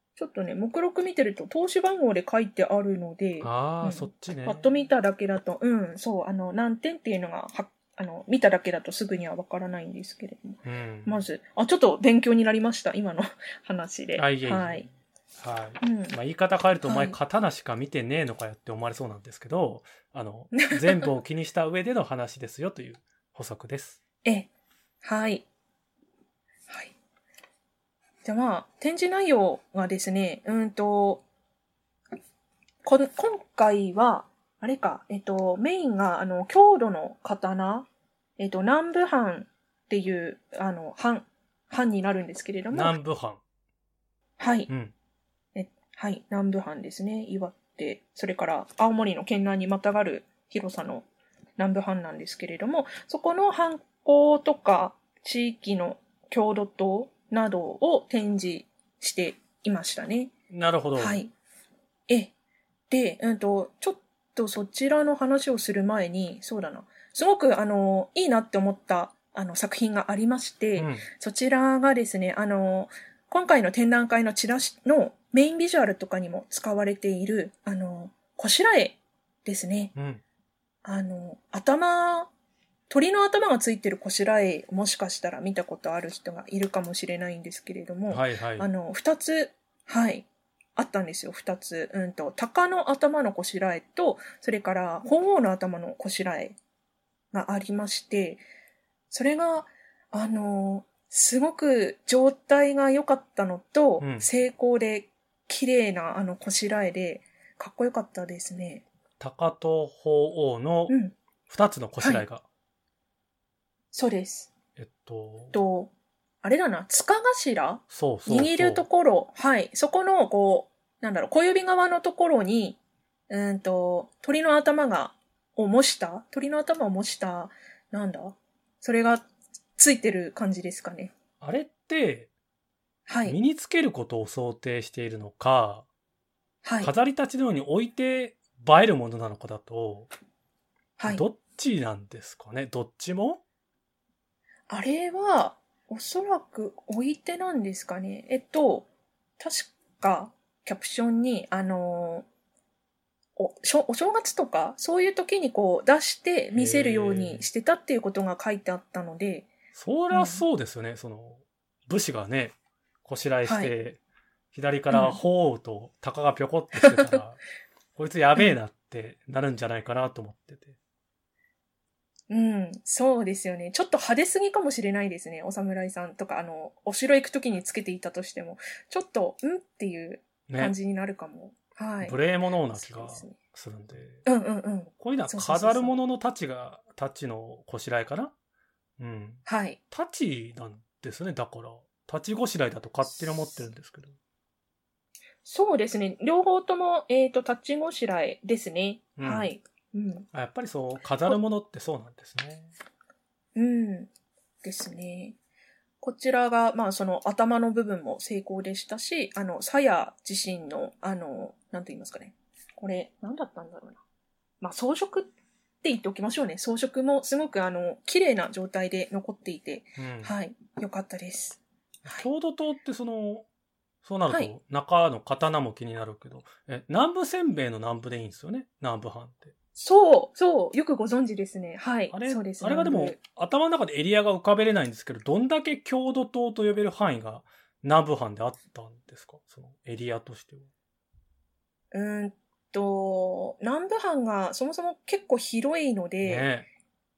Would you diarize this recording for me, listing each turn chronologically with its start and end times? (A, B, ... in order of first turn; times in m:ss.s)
0:00.2-0:14.8 A
0:03.4-0:04.6 B
0:10.6-0:11.2 B
0:14.2-0:24.0 B
0:15.8-0:16.1 A
0:16.8-0:17.2 A
0:20.5-0:21.1 A
0:24.2-0:24.5 A
0:25.0-0:25.4 A
0:26.7-0:26.9 A
0:28.2-0:31.2 A
0:32.8-0:37.9 A
0:38.4-0:42.9 A
0:42.7-0:43.4 B
0:44.4-0:44.7 A
0:45.5-0:51.1 A
0:51.6-1:00.3 A
1:00.5-1:01.2 B
1:01.0-1:01.3 A
1:02.9-1:19.9 A
1:10.8-1:11.0 B
1:19.9-1:20.2 B
1:20.8-1:22.3 A
1:22.9-1:36.6 A
1:28.1-1:28.7 B
1:37.3-1:38.4 A
1:39.1-1:48.8 A
1:44.0-1:44.3 B
1:49.2-1:51.0 B
1:50.9-1:51.1 A
1:51.5-1:52.4 B
1:52.0-1:52.2 A
1:53.9-1:54.5 A
1:54.8-1:55.6 B
1:55.5-1:55.9 A
1:56.4-2:09.2 A
1:57.9-1:58.8 B
2:09.8-2:11.1 A
2:11.4-2:12.3 B
2:13.1-2:13.4 A
2:13.2-2:15.8 B
2:16.6-2:16.9 A
2:16.8-2:20.1 B
2:21.0-2:21.2 A
2:21.0-2:23.4 B
2:24.7-2:28.9 A
2:29.4-2:32.2 A
2:33.4-2:39.5 A
2:36.5-2:37.4 B
2:39.7-2:44.0 B
2:40.1-2:40.4 A
2:43.4-2:43.7 A
2:44.5-2:47.4 B
2:44.9-2:45.2 A
2:46.8-2:47.2 A
2:48.0-2:50.8 B
2:52.3-3:02.2 A
3:00.5-3:00.7 B
3:02.0-3:04.2 B
3:02.7-3:03.4 A
3:04.2-3:06.0 A
3:05.0-3:08.3 B
3:09.0-3:14.2 B
3:09.4-3:09.8 A
3:15.4-3:20.3 A
3:19.2-3:19.5 B
3:20.3-3:22.7 B
3:23.5-3:24.1 A
3:24.6-3:25.4 A
3:26.0-3:34.0 A
3:34.6-3:35.3 A
3:35.8-3:42.2 A
3:40.0-3:40.3 B
3:42.0-3:43.4 B
3:44.0-3:49.5 B
3:44.3-3:44.5 A
3:49.8-3:53.2 A
3:52.1-4:00.7 B
4:01.9-4:06.5 A
4:06.2-4:06.7 B